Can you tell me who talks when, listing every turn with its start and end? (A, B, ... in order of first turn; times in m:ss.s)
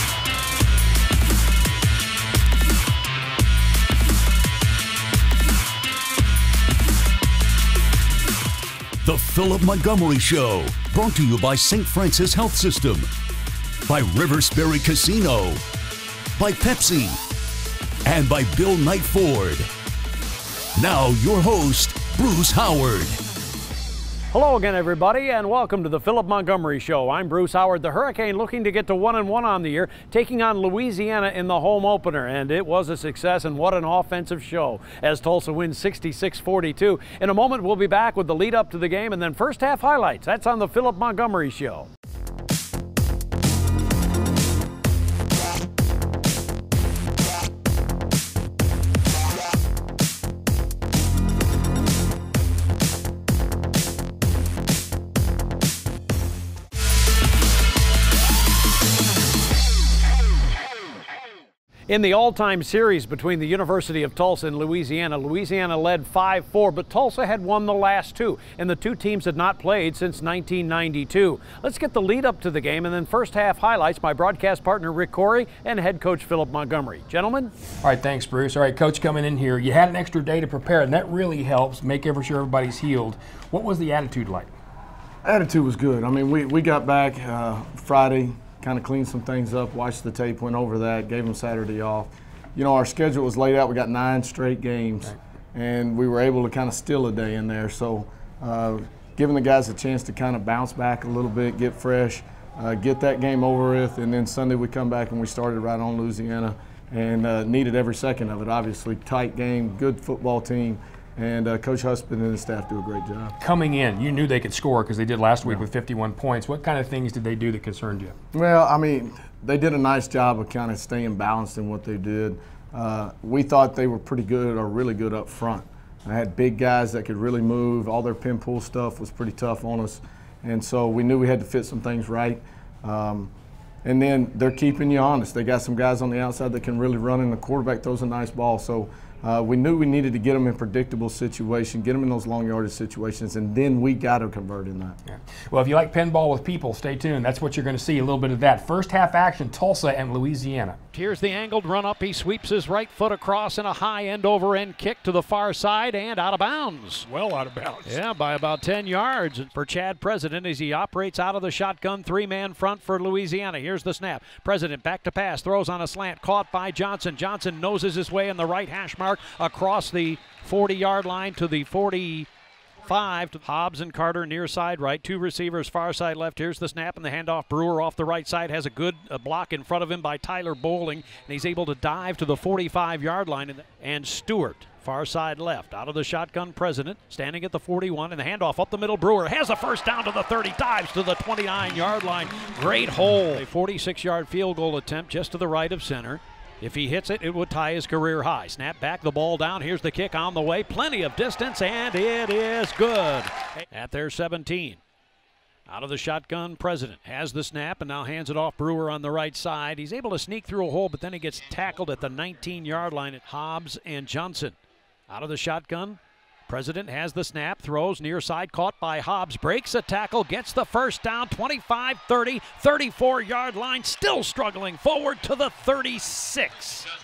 0:09.0-0:13.1 A
0:13.8-0:15.6 A
0:16.4-0:17.2 A
0:18.0-0:19.7 A
0:20.7-0:23.2 A
0:24.3-0:41.9 B
1:01.9-1:17.5 B
1:17.8-1:24.5 C
1:25.2-1:53.3 D
1:53.4-1:58.2 C
1:58.3-2:13.3 D
2:13.8-2:25.0 D
2:25.1-2:30.8 C
2:30.9-2:37.1 B
2:37.1-2:37.9 C
2:37.8-2:52.3 B
2:52.8-3:24.8 B
3:25.7-3:34.6 B
3:35.1-3:46.9 B